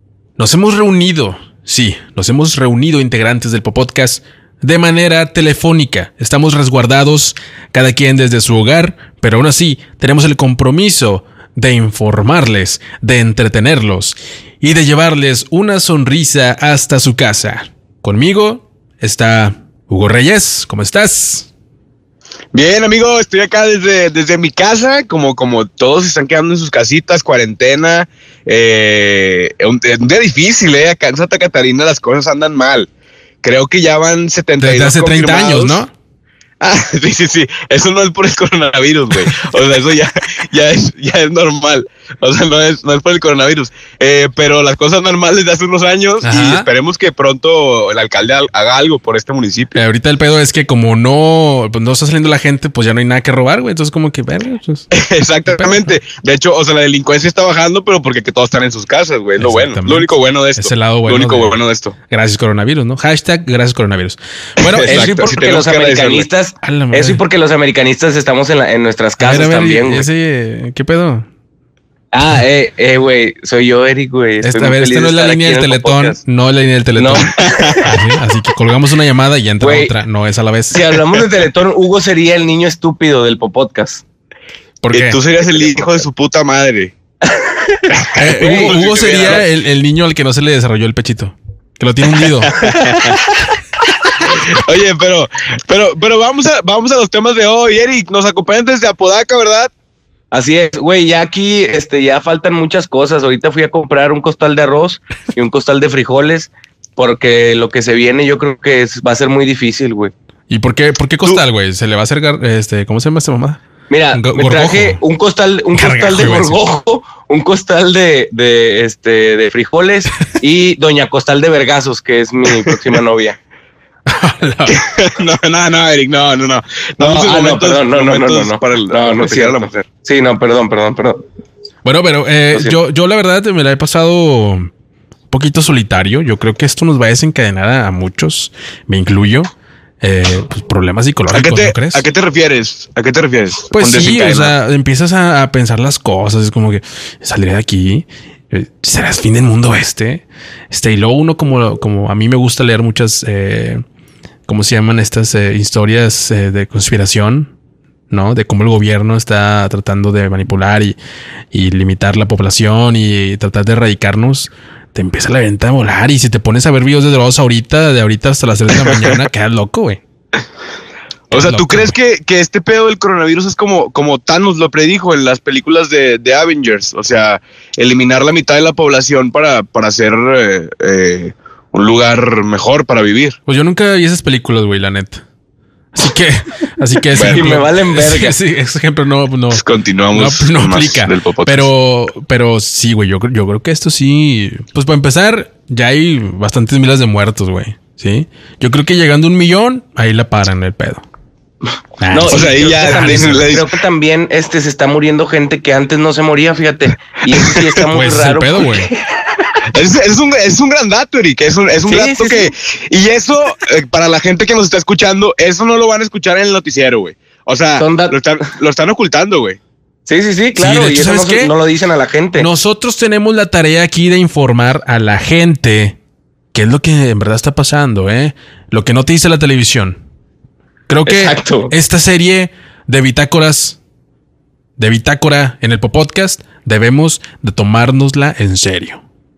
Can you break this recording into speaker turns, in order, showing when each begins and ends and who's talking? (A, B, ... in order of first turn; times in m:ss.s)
0:00.4-0:21.5 A
0:22.5-0:32.9 B
0:33.4-0:35.8 B
0:34.6-0:35.9 A
0:36.6-0:49.8 B
0:46.2-0:46.7 A
0:49.7-0:54.8 A
0:54.9-1:01.9 B
0:55.5-0:55.9 A
0:59.4-1:05.2 A
1:04.6-1:06.3 B
1:04.9-1:10.1 C
1:06.6-1:07.2 A
1:09.2-1:11.3 A
1:12.1-1:16.2 C
1:14.4-1:20.8 A
1:17.0-1:17.9 C
1:17.2-1:17.9 B
1:19.6-1:19.9 C
1:20.7-1:24.0 C
1:24.8-1:25.2 A
1:24.9-1:26.9 B
1:25.4-1:25.7 C
1:27.3-1:29.4 C
1:28.0-1:29.4 B
1:28.2-1:32.6 A
1:32.2-1:33.1 B
1:32.7-1:33.2 C
1:34.1-1:39.7 B
1:40.3-1:50.1 C
1:50.5-1:53.6 A
1:53.9-2:03.4 C
1:54.1-1:55.0 A
1:55.7-1:56.6 A
2:04.1-2:04.8 A
2:04.6-2:09.8 B
2:07.0-2:11.2 C
2:11.8-2:14.7 A
2:15.3-2:22.0 A
2:21.3-2:24.5 B
2:23.7-2:33.8 A
2:34.5-2:37.5 A
2:38.1-2:41.0 A
2:41.5-2:50.0 A
2:51.3-2:52.0 A
2:51.3-3:03.4 B
3:03.4-3:05.2 A
3:05.9-3:09.6 A
3:07.1-3:07.5 B
3:07.2-3:08.4 C
3:09.5-3:11.7 B
3:10.1-3:21.0 A
3:22.0-3:23.6 A
3:22.1-3:29.0 C
3:22.3-3:23.7 B
3:27.9-3:28.9 A
3:29.7-3:39.6 B
3:31.8-3:32.5 C
3:37.8-3:38.2 C
3:40.0-3:42.5 C
3:40.6-3:41.5 A
3:42.4-3:46.0 A
3:46.5-3:50.0 A
3:50.9-3:53.8 A
3:51.0-3:51.7 C
3:54.8-3:59.0 A